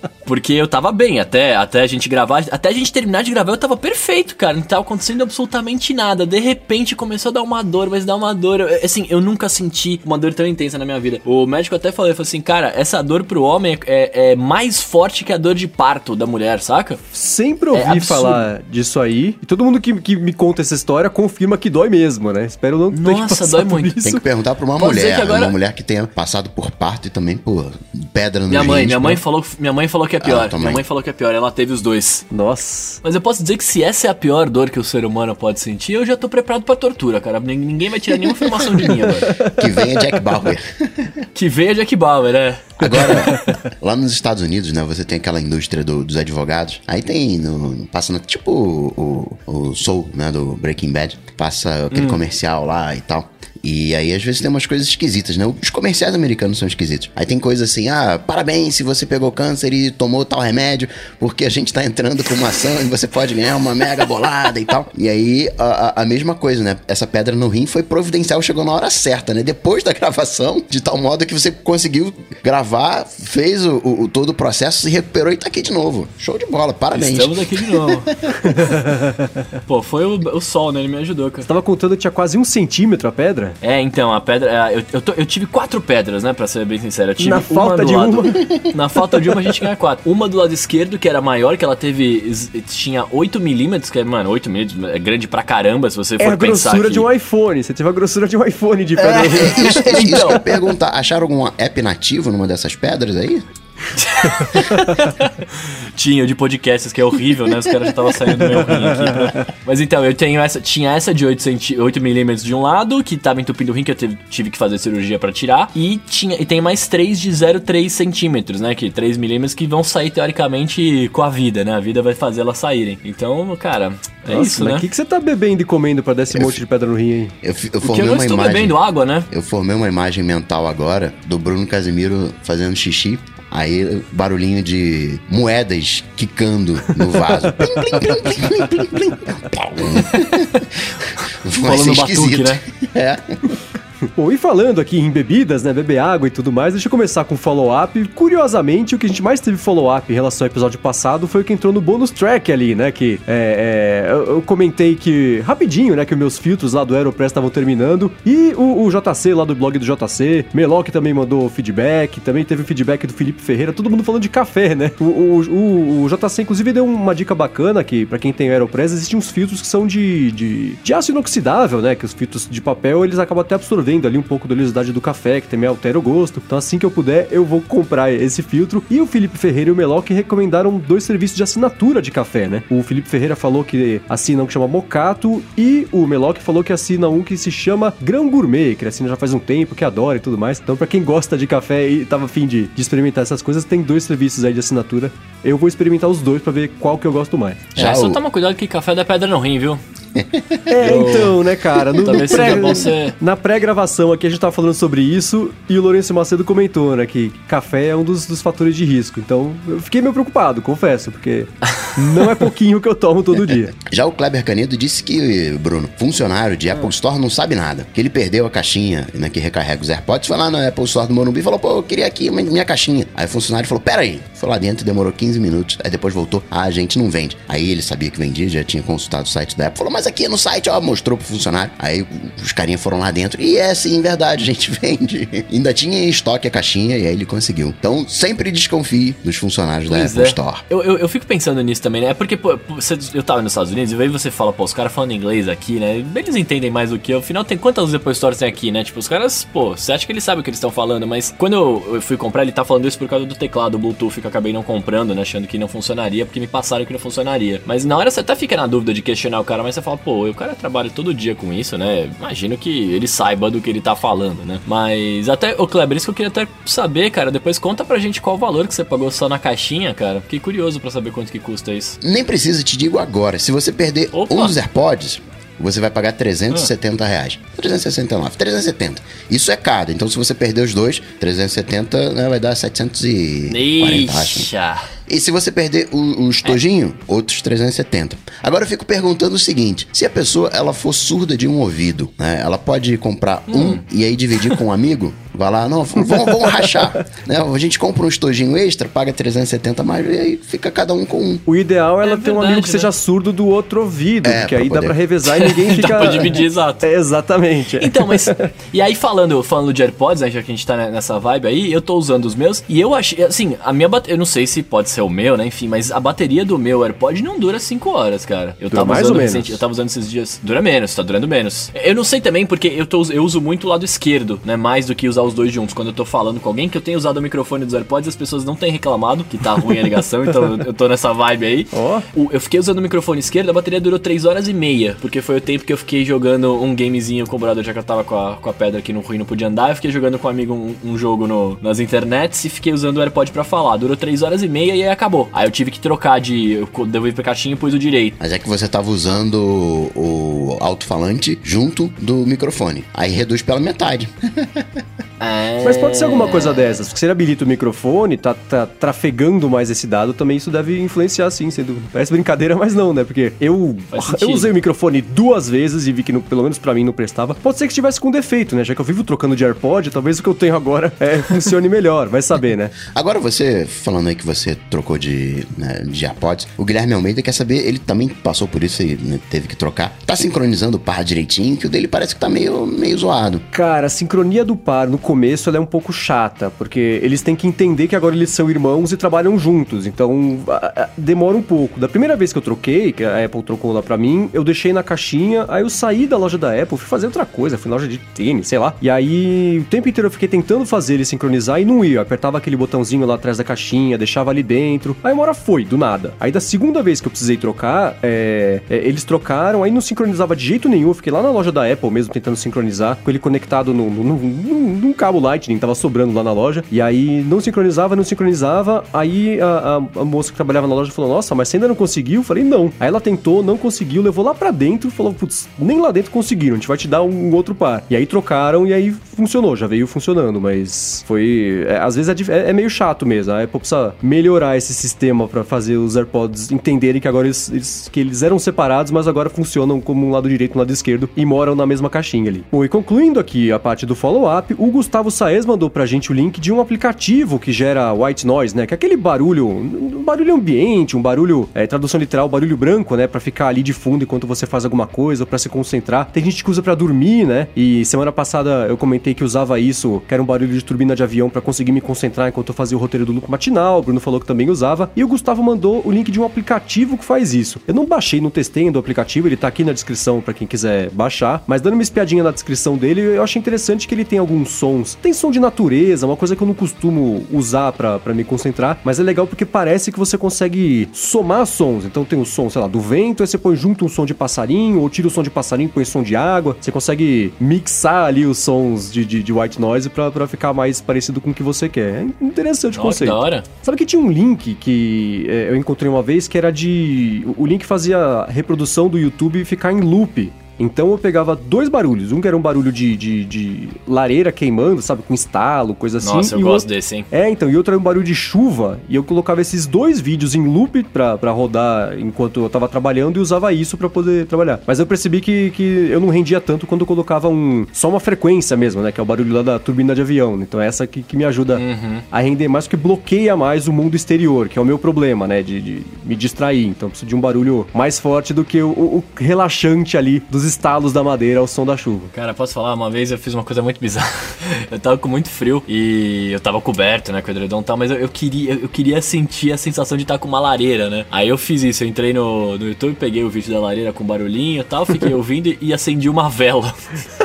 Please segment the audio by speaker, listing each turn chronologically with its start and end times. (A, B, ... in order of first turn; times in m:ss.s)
0:00.2-0:17.0 A
0:17.1-0:24.2 B
0:17.7-0:18.5 A
0:22.9-0:24.0 A
0:24.0-0:29.2 C
0:24.8-0:25.6 A
0:28.5-0:32.2 A
0:30.2-0:30.8 C
0:32.3-0:33.0 B
0:33.0-0:39.4 A
0:39.1-0:40.0 B
0:39.4-0:41.2 C
0:41.4-0:43.6 A
0:42.8-1:18.3 C
0:43.0-0:43.5 B
0:51.9-0:52.2 A
1:16.9-1:19.0 A
1:18.4-1:19.3 B
1:19.6-1:21.5 A
1:21.4-1:23.6 B
1:23.6-1:37.1 A
1:27.2-1:28.4 B
1:36.2-1:40.4 B
1:39.0-1:40.5 A
1:39.4-1:43.4 C
1:44.0-2:04.9 A
1:49.1-1:49.5 B
2:04.3-2:07.3 B
2:07.4-2:08.8 C
2:07.8-2:09.3 A
2:09.3-2:23.4 C
2:17.2-2:18.2 B
2:21.6-2:22.6 A
2:24.2-3:17.7 B
3:17.8-3:18.2 C
3:17.8-3:19.8 A
3:20.2-3:21.0 C
3:20.7-3:33.7 B
3:20.8-3:21.4 A
3:22.0-3:23.0 C
3:22.0-3:23.2 A
3:33.8-4:00.6 C
3:59.9-4:32.0 A
4:32.0-4:44.5 C
4:34.1-4:34.6 A
4:43.5-4:44.9 A
4:45.1-5:01.4 C
4:53.5-4:53.8 A
4:56.0-4:57.1 B
5:01.5-5:08.5 B
5:02.0-5:02.9 A
5:04.2-5:05.0 C
5:05.3-5:06.9 A
5:07.8-5:48.2 A
5:18.7-5:19.6 B
5:31.7-5:32.1 B
5:48.2-5:54.8 C
5:55.2-5:56.9 A
5:55.6-6:12.7 B
6:03.9-6:04.5 A
6:12.9-6:23.4 C
6:23.5-8:52.1 B
8:12.7-8:13.5 A
8:26.0-8:27.1 A
8:41.6-8:42.0 A
8:52.1-9:06.8 A